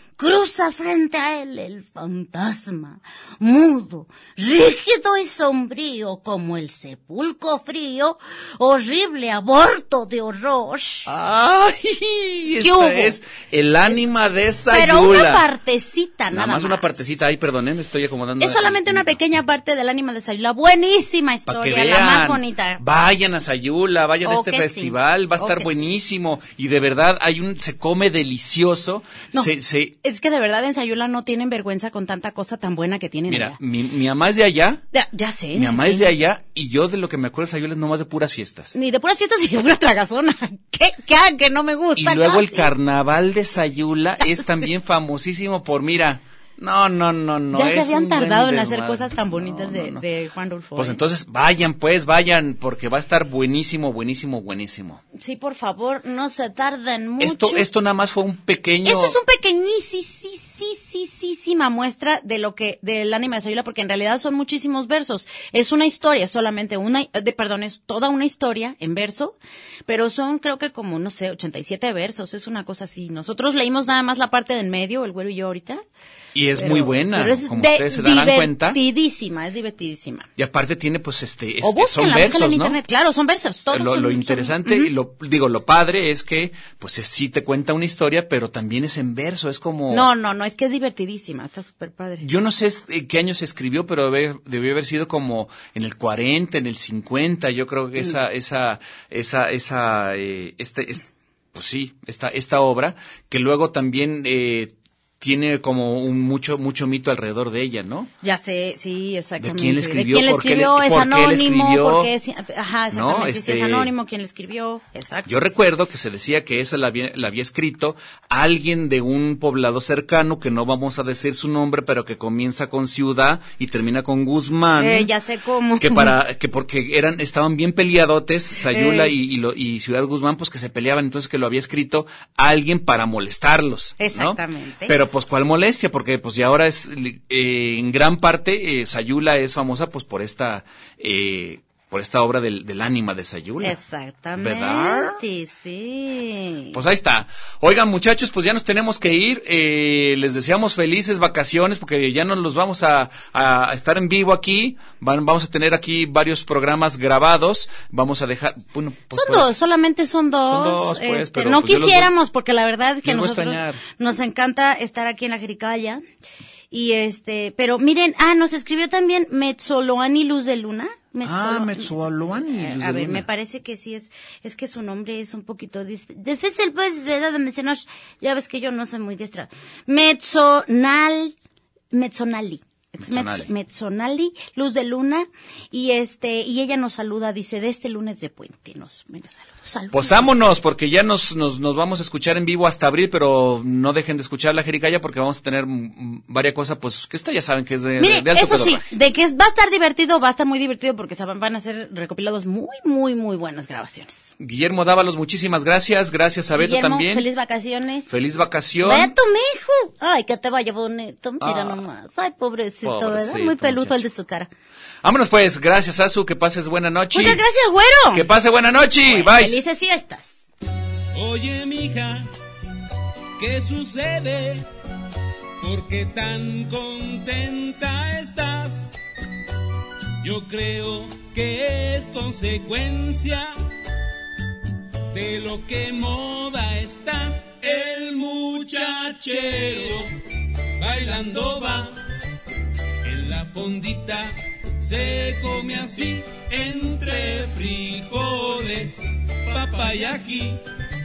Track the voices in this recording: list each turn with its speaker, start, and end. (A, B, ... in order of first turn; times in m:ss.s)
0:00.2-0:11.1 A
0:11.1-0:15.4 B
0:12.6-0:13.2 C
0:14.7-0:16.8 C
0:16.3-0:19.2 B
0:18.4-0:22.8 C
0:21.5-0:30.0 B
0:24.2-0:25.8 C
0:29.3-0:33.6 C
0:33.3-0:34.8 B
0:34.9-0:36.2 C
0:35.5-0:38.7 B
0:38.7-0:42.7 C
0:42.0-0:50.0 B
0:44.3-0:44.6 C
0:47.5-0:51.0 C
0:50.8-0:55.0 B
0:55.2-0:57.6 C
0:57.2-0:59.2 B
0:58.8-1:15.8 C
1:16.3-1:18.8 B
1:16.6-1:20.3 C
1:20.4-1:22.8 B
1:21.6-1:24.9 C
1:23.7-1:30.1 B
1:29.9-1:32.2 C
1:32.2-1:48.1 B
1:48.2-1:55.4 C
1:49.4-1:52.1 B
1:52.9-1:53.9 B
1:55.2-2:05.1 B
2:04.8-2:06.2 C
2:05.8-2:23.8 B
2:08.7-2:09.1 C
2:14.0-2:14.9 C
2:23.6-2:26.8 C
2:24.4-2:25.2 B
2:26.7-2:39.5 B
2:39.1-2:46.0 C
2:40.4-2:42.1 B
2:43.0-2:43.8 B
2:46.7-3:01.3 C
2:51.2-2:53.2 B
3:01.9-3:10.4 C
3:03.0-3:03.5 B
3:09.9-3:18.9 B
3:18.0-3:24.3 C
3:24.4-3:27.2 B
3:26.6-3:28.1 C
3:28.1-3:29.1 B
3:28.8-3:34.5 C
3:31.4-3:31.8 B
3:32.8-3:34.0 B
3:35.0-3:37.4 B
3:37.1-3:38.2 C
3:38.1-3:39.6 B
3:39.0-3:40.5 C
3:41.1-3:42.3 D
3:43.4-3:44.7 D
3:45.6-3:48.9 D
3:50.2-3:53.5 D
3:55.1-4:00.2 D
4:00.8-4:02.0 D
4:03.0-4:10.6 D